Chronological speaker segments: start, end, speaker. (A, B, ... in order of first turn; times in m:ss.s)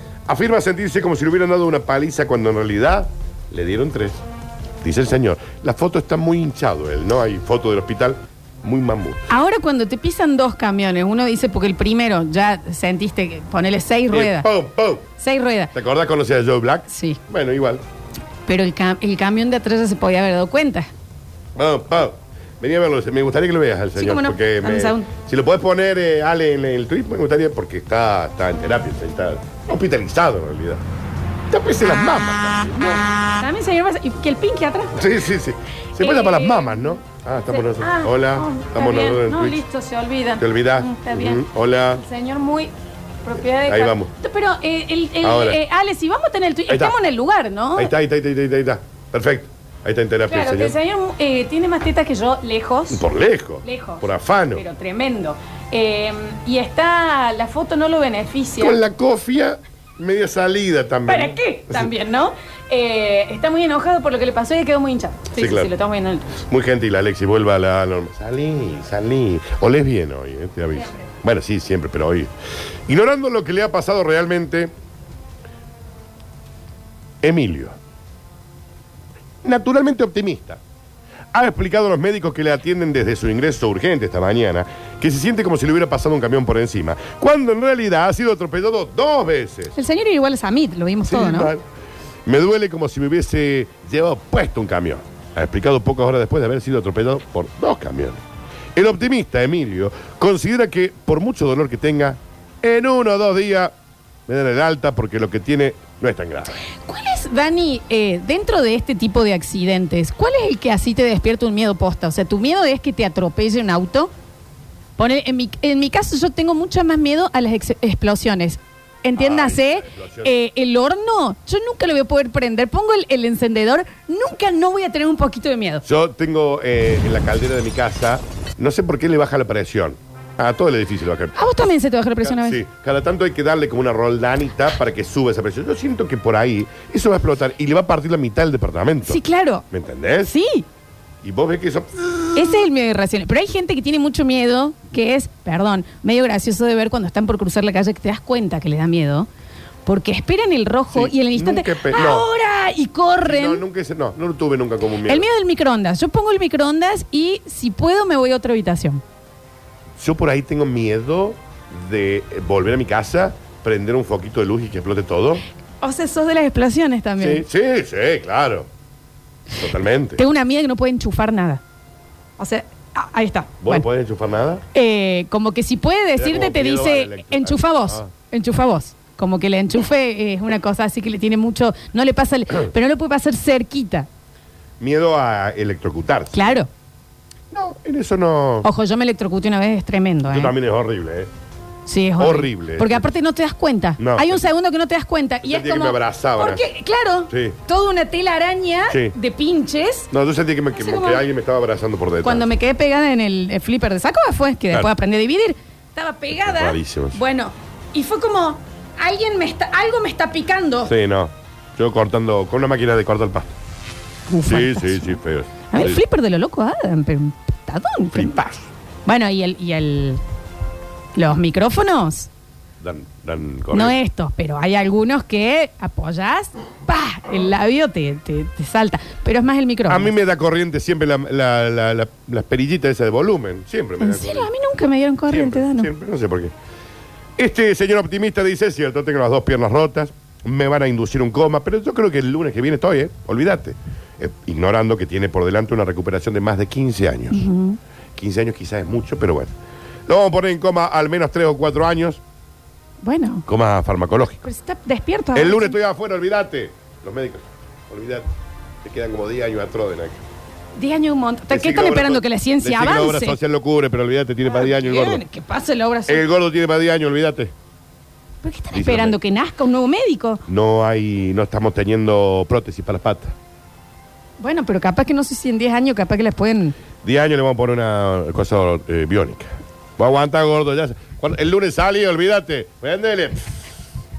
0:00.2-0:04.2 A
0:04.8-0:09.3 A
0:09.3-0:14.5 B
0:14.1-0:15.1 A
0:15.2-0:15.7 B
0:15.7-0:17.8 A
0:16.9-0:17.2 B
0:18.5-0:20.9 B
0:21.6-0:30.8 A
0:24.0-0:25.1 B
0:31.5-0:33.0 A
0:33.4-0:35.0 B
0:34.9-0:39.6 A
0:36.0-0:36.9 B
0:37.5-0:42.7 B
0:40.4-0:42.0 A
0:43.2-0:47.9 B
0:43.6-0:44.1 A
0:45.2-0:45.6 A
0:46.7-0:47.0 A
0:47.8-0:50.8 A
0:50.3-0:53.0 B
0:52.9-0:54.6 A
0:53.6-0:58.8 B
0:58.6-1:01.9 A
1:01.1-1:06.3 B
1:05.4-1:05.7 A
1:06.3-1:12.3 A
1:12.8-1:14.7 A
1:17.2-1:17.8 A
1:19.4-1:20.6 A
1:21.3-1:29.8 A
1:29.7-1:31.5 B
1:31.0-1:31.6 A
1:32.2-1:38.2 A
1:38.7-1:43.7 A
1:44.3-1:46.6 A
1:46.7-1:54.1 B
1:55.0-2:05.8 B
1:59.2-2:00.3 A
2:05.8-2:11.5 A
2:11.3-2:12.6 B
2:12.2-2:20.3 A
2:19.0-2:19.6 B
2:20.2-2:20.6 B
2:21.2-2:22.6 A
2:22.3-2:29.3 B
2:29.8-2:33.6 B
2:30.9-2:32.3 A
2:33.2-2:35.3 A
2:35.0-2:39.0 B
2:40.0-2:45.4 A
2:45.8-2:47.4 B
2:47.2-2:48.7 A
2:49.6-2:50.2 A
2:50.2-2:51.6 B
2:52.4-2:53.8 B
2:53.6-2:54.6 A
2:54.7-3:04.1 B
2:56.2-2:58.1 A
3:04.8-3:06.6 A
3:06.3-3:06.7 B
3:07.5-3:08.7 A
3:08.6-3:10.5 B
3:10.3-3:11.3 A
3:11.8-3:20.1 B
3:12.2-3:13.1 A
3:14.0-3:14.4 A
3:15.4-3:16.6 A
3:17.3-3:17.6 A
3:20.1-3:22.5 A
3:20.7-3:21.2 B
3:22.2-3:30.9 B
3:26.4-3:27.2 A
3:30.8-3:33.6 A
3:34.3-3:35.2 B
3:34.4-3:36.0 A
3:35.7-3:38.4 B
3:38.1-3:38.7 A
3:39.0-3:40.2 B
3:41.1-3:42.3 B
3:42.8-3:44.0 A
3:43.7-3:50.1 B
3:49.9-3:54.5 A
3:54.0-3:55.9 B
3:55.3-3:56.5 A
3:57.4-4:07.4 A
4:07.3-4:07.8 B
4:08.2-4:09.5 A
4:10.1-4:12.2 A
4:13.0-4:13.4 B
4:13.4-4:14.4 A
4:14.4-4:15.8 B
4:15.3-4:18.3 A
4:18.8-4:20.2 A
4:20.8-4:23.4 B
4:21.5-4:25.2 A
4:24.4-4:26.2 B
4:26.1-4:27.5 A
4:28.4-4:30.4 B
4:28.7-4:29.2 A
4:30.5-4:33.4 A
4:34.4-4:36.8 B
4:37.0-4:43.7 A